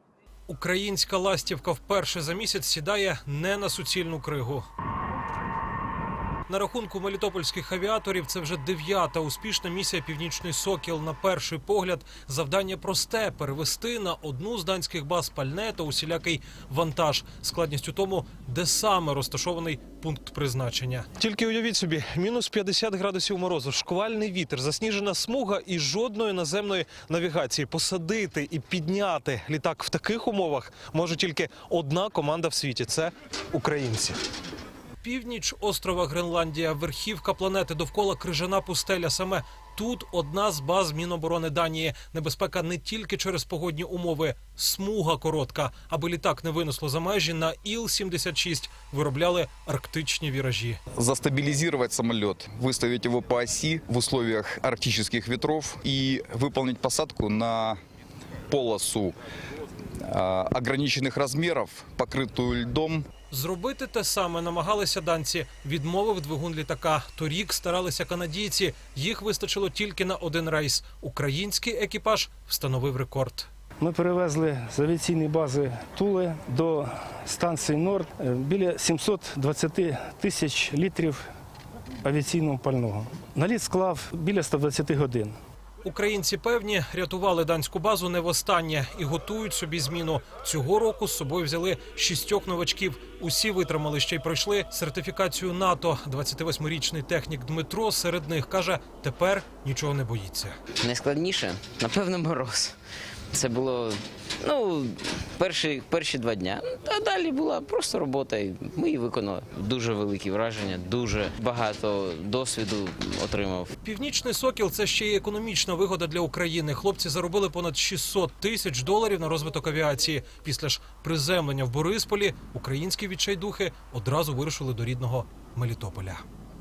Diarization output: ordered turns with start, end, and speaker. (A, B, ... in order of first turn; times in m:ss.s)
0:00.5-0:04.6 A
0:06.5-0:34.2 A
0:35.0-0:50.8 A
0:51.0-0:57.8 B
0:58.5-0:59.1 B
1:00.0-1:03.0 B
1:03.3-1:13.5 A
1:13.8-1:21.2 C
1:22.0-1:25.4 C
1:25.8-1:40.6 A
1:40.8-1:42.7 D
1:43.3-1:53.7 D
1:53.8-2:06.2 A